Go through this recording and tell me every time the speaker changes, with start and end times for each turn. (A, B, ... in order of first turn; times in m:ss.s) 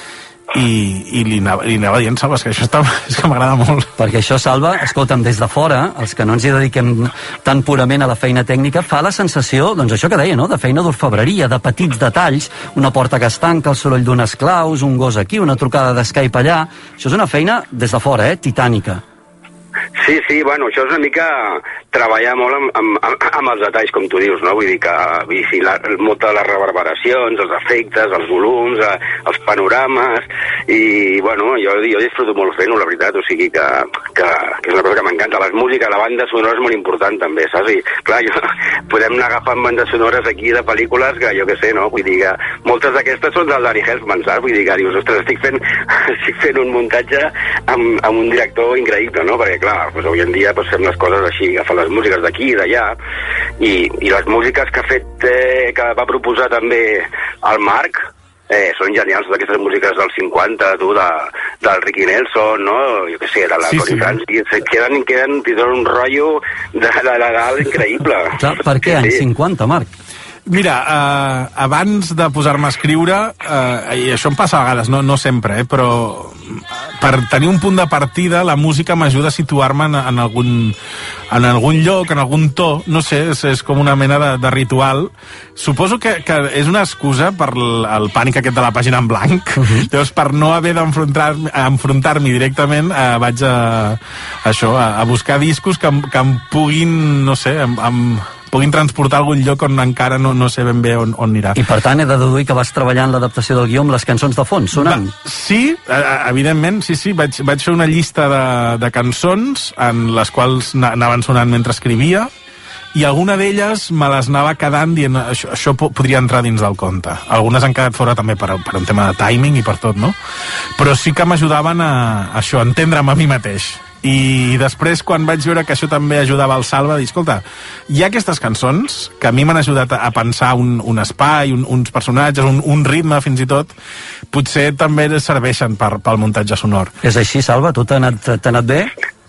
0:00.5-0:03.9 A
0:04.0-0:19.0 B
0:20.0-0:38.4 C
0:38.9-0:53.0 C
0:53.6-1:09.2 C
1:03.6-1:04.2 A
1:08.4-1:09.9 B
1:10.5-1:20.8 A
1:21.3-1:41.6 A
1:29.6-1:29.8 B
1:41.6-1:45.1 B
1:44.7-1:52.3 A
1:52.9-2:00.2 A
2:00.8-2:13.7 A
2:14.3-2:16.9 A
2:17.0-2:18.9 B